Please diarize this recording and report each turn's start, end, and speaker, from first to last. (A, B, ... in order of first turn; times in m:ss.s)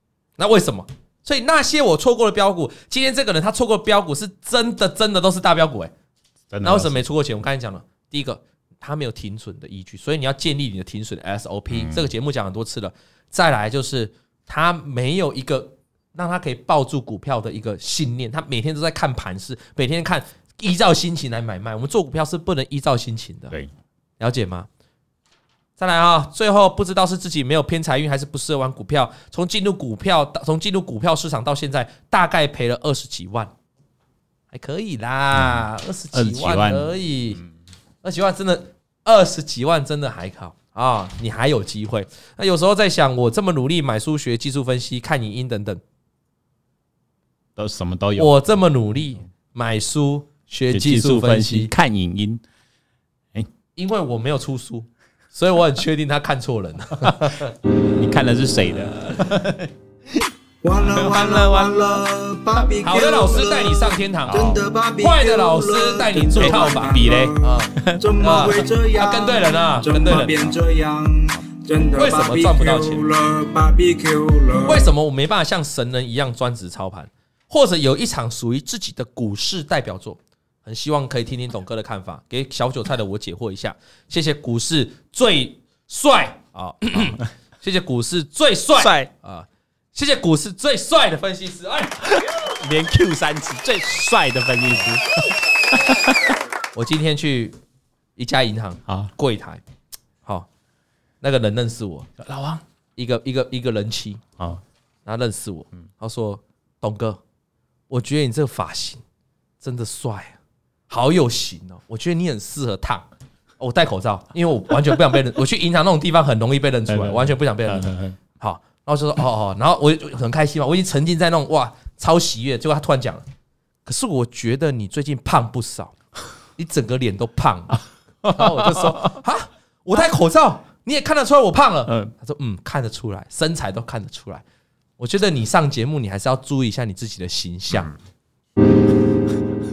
0:00.4-0:05.9 A
0:06.5-0:07.0 B
0:06.6-0:23.6 A
0:11.7-0:12.1 B
0:24.2-0:24.7 A
0:25.8-0:33.5 A
0:34.5-0:37.4 A
0:35.3-0:36.9 B
0:38.0-0:45.8 A
0:47.6-0:48.3 B
0:48.2-0:51.7 A
0:50.7-0:52.4 B
0:53.8-0:57.6 A
0:57.7-1:02.0 B
1:00.6-1:14.9 C
1:02.8-1:10.5 A
1:04.2-1:04.6 B
1:06.4-1:08.6 B
1:10.3-1:10.5 B
1:12.0-1:13.1 A
1:14.6-1:32.0 A
1:28.8-1:29.1 B
1:32.0-1:36.4 B
1:36.7-1:37.6 A
1:38.2-1:39.6 A
1:41.2-1:42.1 A
1:42.2-1:42.6 B
1:43.0-1:44.2 A
1:45.0-1:47.2 A
1:47.9-1:49.0 A
1:49.6-1:50.4 A
1:50.9-1:53.0 A
1:53.6-2:03.2 A
1:56.9-1:58.2 B
2:03.8-2:06.0 A
2:06.6-2:14.4 A
2:08.2-2:09.1 B
2:11.9-2:12.1 B
2:15.0-2:17.9 A
2:17.7-2:18.0 B